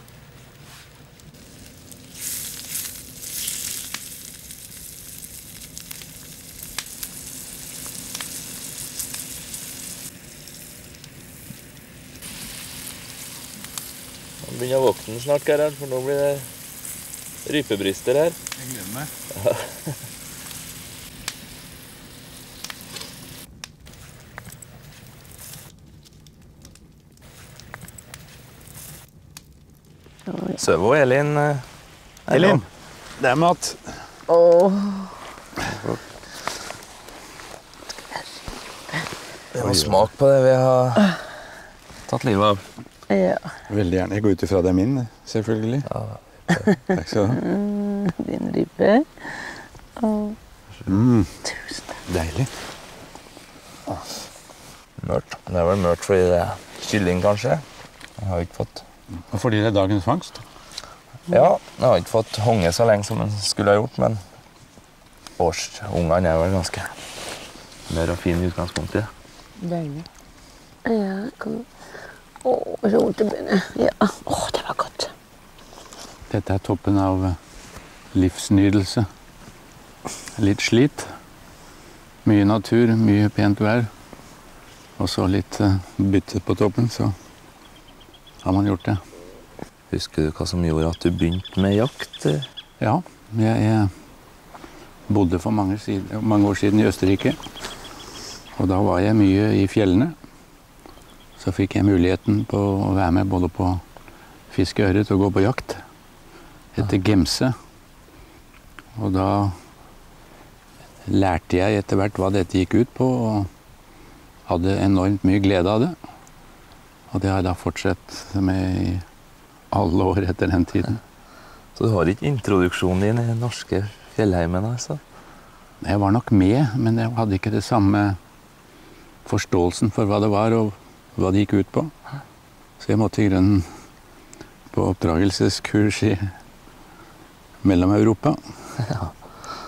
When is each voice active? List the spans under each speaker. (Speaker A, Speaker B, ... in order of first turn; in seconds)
Speaker A: 14.4-16.5, 17.4-18.4, 19.4-19.9, 30.6-31.6, 32.3-32.6, 35.6-36.0, 39.5-41.1, 42.1-42.6, 45.9-46.7, 55.0-57.6, 58.2-58.8, 61.3-64.2, 65.4-66.9, 67.9-69.1, 89.9-92.5, 121.8-125.0, 138.8-139.1
Speaker B: 18.6-19.1, 32.3-32.6, 33.2-33.9, 43.7-45.9, 46.9-47.4, 50.9-51.3, 52.1-52.5, 59.3-60.4, 76.3-77.4, 78.1-79.1, 80.3-81.1, 82.2-83.9, 85.0-87.1, 88.4-89.0, 92.8-93.9, 95.1-97.4, 98.5-100.2, 101.4-103.8, 104.5-105.8, 106.8-107.5, 109.0-109.6, 111.0-113.5, 114.5-116.0, 117.1-119.0, 119.7-121.0, 125.8-128.2, 129.2-131.9, 132.8-133.7, 134.7-136.3, 137.6-138.4
Speaker C: 30.3-30.6, 34.3-35.1, 43.1-43.5, 47.3-50.4, 51.5-51.8, 69.6-70.0, 70.8-71.7, 72.4-75.1